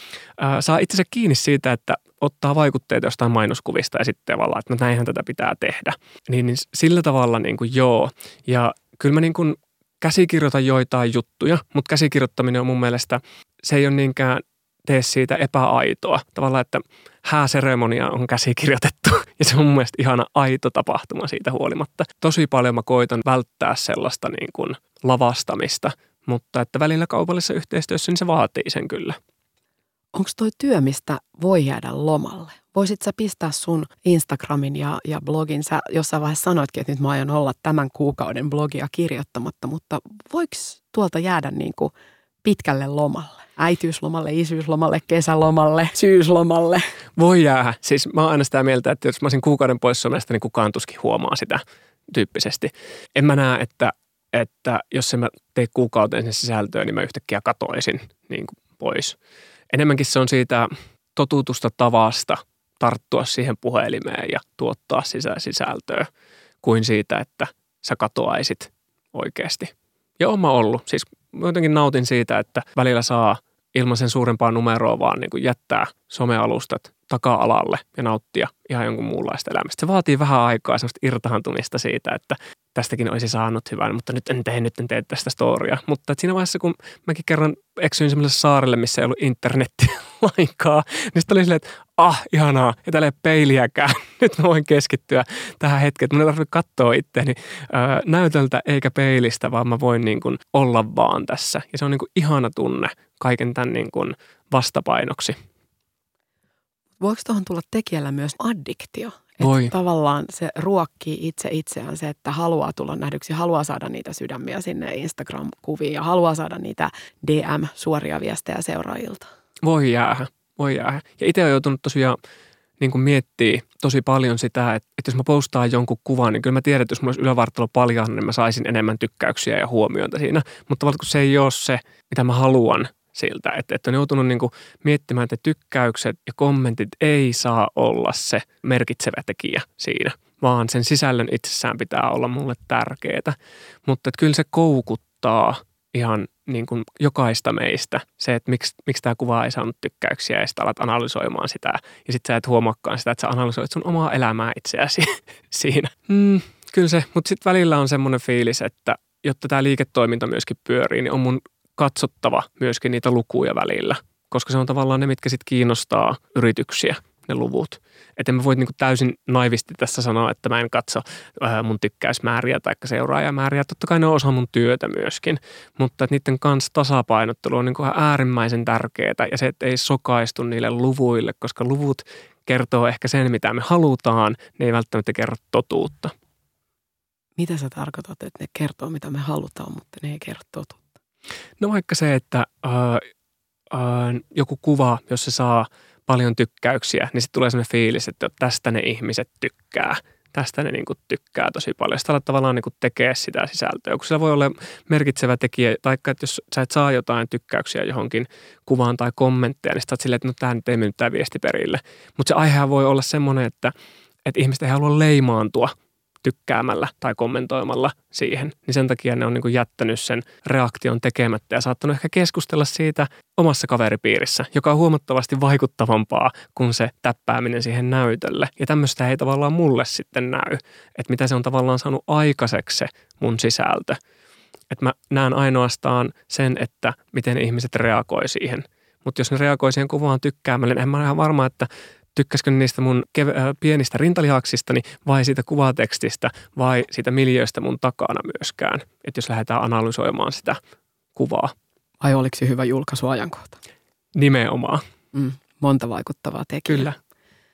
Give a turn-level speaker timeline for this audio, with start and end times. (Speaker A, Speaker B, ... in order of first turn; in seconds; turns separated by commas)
Speaker A: 0.4-29.2, Speaker B: 30.1-41.9, Speaker B: 42.4-46.8, Speaker A: 47.2-59.2, Speaker A: 59.7-66.1, Speaker A: 66.6-105.4, Speaker B: 107.0-119.3, Speaker A: 109.4-109.7, Speaker A: 119.6-122.2, Speaker A: 122.8-186.1, Speaker B: 187.4-191.0, Speaker A: 191.6-193.0, Speaker A: 193.7-213.7, Speaker A: 214.2-234.0, Speaker A: 234.7-250.6, Speaker A: 251.2-251.5, Speaker B: 252.0-253.6, Speaker A: 254.1-254.8, Speaker B: 255.1-256.9, Speaker A: 256.7-257.0